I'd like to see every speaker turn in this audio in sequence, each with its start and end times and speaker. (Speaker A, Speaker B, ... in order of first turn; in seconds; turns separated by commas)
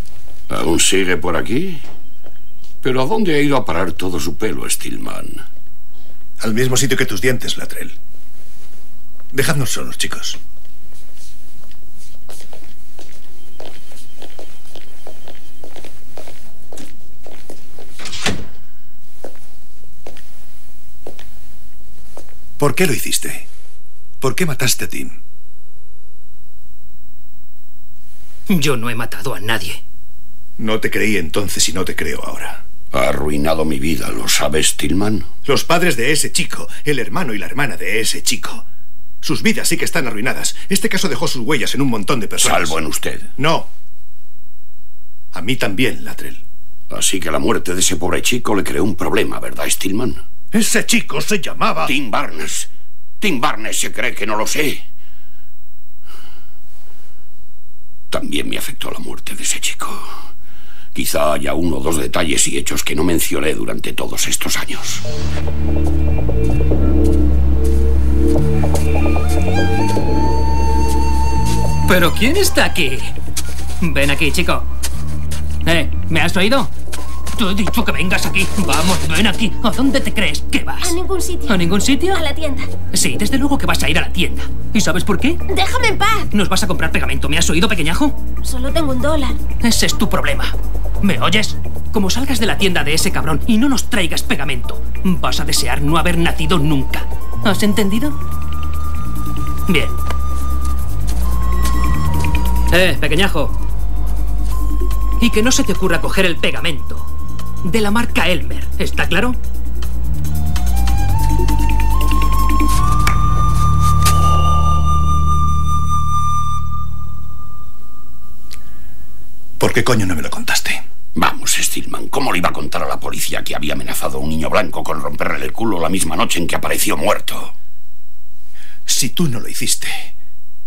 Speaker A: 0.5-1.8, Speaker A: 2.8-5.4, Speaker B: 6.4-8.0, Speaker B: 9.3-10.4, Speaker B: 22.6-23.5, Speaker B: 24.2-25.2, Speaker C: 28.5-29.8, Speaker B: 30.6-32.6, Speaker A: 32.9-35.3, Speaker B: 35.4-38.6, Speaker B: 39.2-42.8, Speaker A: 42.4-43.3, Speaker B: 43.4-43.7, Speaker B: 45.3-46.4, Speaker A: 46.9-50.2, Speaker B: 50.5-51.9, Speaker A: 51.8-54.8, Speaker A: 58.1-60.1, Speaker A: 60.9-65.0, Speaker C: 71.8-73.1, Speaker C: 73.8-74.7, Speaker C: 75.6-76.7, Speaker C: 77.3-82.2, Speaker D: 80.8-82.7, Speaker C: 82.9-85.4, Speaker D: 85.5-86.3, Speaker C: 86.3-88.2, Speaker D: 88.4-89.4, Speaker C: 89.6-98.2, Speaker C: 99.7-100.0, Speaker C: 102.7-103.5, Speaker C: 105.2-107.1, Speaker C: 107.6-109.4, Speaker B: 119.6-120.8, Speaker A: 121.1-127.5, Speaker B: 128.9-130.1